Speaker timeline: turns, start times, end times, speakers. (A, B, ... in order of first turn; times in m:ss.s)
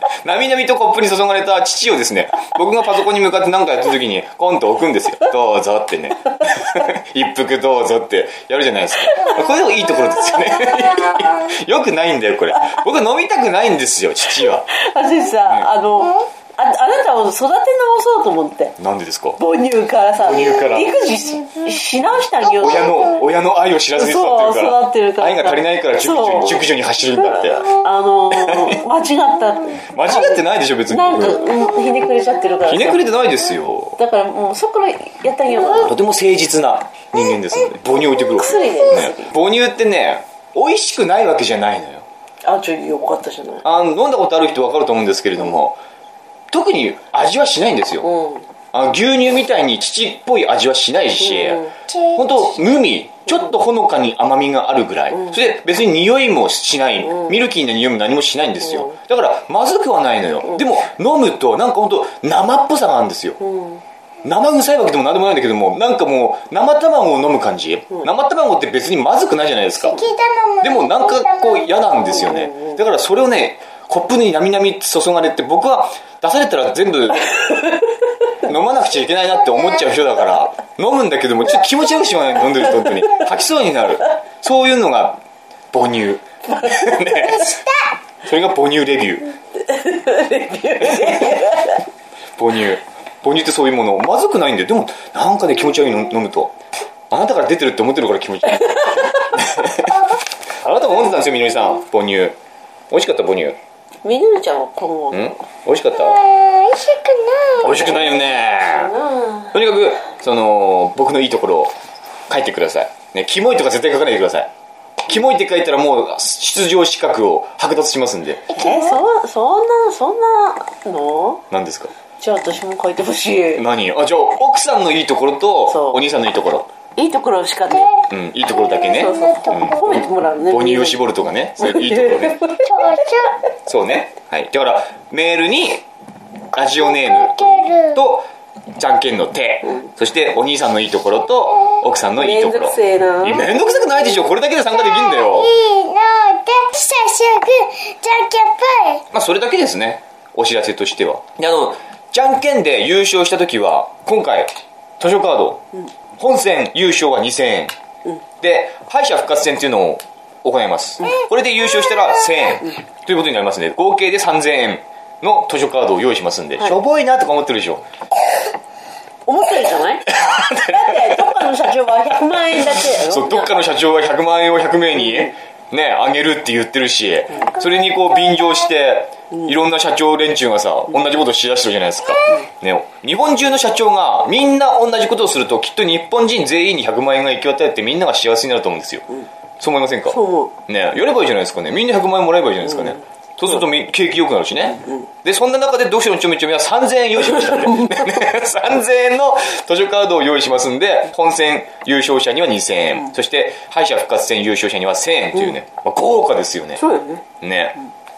0:00.2-0:14.7 A
0:10.7-0:11.3 B
0:14.7-0:18.7 C
0:18.8-0:19.4 A
0:19.4-0:23.1 C
0:20.2-0:21.0 A
0:20.8-0:21.7 B
0:22.4-0:23.1 B
0:22.4-0:27.7 A
0:23.9-0:33.1 C
0:28.3-0:28.7 A
0:29.9-0:31.6 A
0:31.5-0:32.5 B
0:32.6-0:34.0 A
0:34.0-0:36.0 C
0:35.8-0:42.0 A
0:38.2-0:38.8 B
0:38.3-0:39.4 C
0:42.4-0:43.6 C
0:43.6-0:45.8 A
0:46.5-0:48.1 A
0:48.0-0:48.4 C
0:48.7-1:03.4 A
0:51.2-0:51.7 C
0:51.9-0:52.6 B
0:58.6-0:59.0 C
1:03.4-1:03.8 C
1:04.2-1:10.0 A
1:09.9-1:12.3 B
1:10.6-1:17.3 A
1:12.2-1:12.8 C
1:18.4-1:25.2 A
1:19.1-1:20.0 B
1:25.7-1:27.5 A
1:27.1-1:27.9 B
1:28.2-1:29.3 A
1:29.6-1:31.8 C
1:30.8-1:31.5 A
1:32.4-1:36.5 A
1:37.1-1:40.0 A
1:39.8-1:40.2 B
1:40.6-1:42.4 A
1:42.9-1:43.6 A
1:44.0-1:45.3 C
1:45.1-1:46.2 A
1:46.0-1:48.1 B
1:47.6-1:48.9 A
1:48.0-1:49.5 C
1:49.5-1:51.7 A
1:52.3-1:54.5 A
1:55.0-1:58.5 A
1:58.5-1:59.0 B
1:58.5-2:01.4 C
2:01.5-2:01.9 A
2:02.2-2:03.6 C
2:03.6-2:06.7 A
2:05.7-2:06.0 C
2:07.0-2:08.0 C
2:07.7-2:10.1 B
2:08.0-2:12.5 A
2:08.8-2:11.0 C
2:11.6-2:12.8 C
2:12.5-2:13.4 B
2:13.6-2:15.8 A
2:16.5-2:25.5 A
2:16.8-2:18.0 B
2:22.2-2:23.4 C
2:23.3-2:29.0 B
2:29.1-2:35.6 A
2:36.2-2:37.7 A
2:38.4-2:47.8 A
2:49.2-2:53.6 C
2:50.1-2:50.8 A
2:52.6-3:09.0 A
2:57.7-2:58.3 B
3:09.6-3:26.8 A
3:10.1-3:10.5 C
3:12.6-3:13.0 C
3:26.8-3:27.2 C
3:27.4-3:27.8 A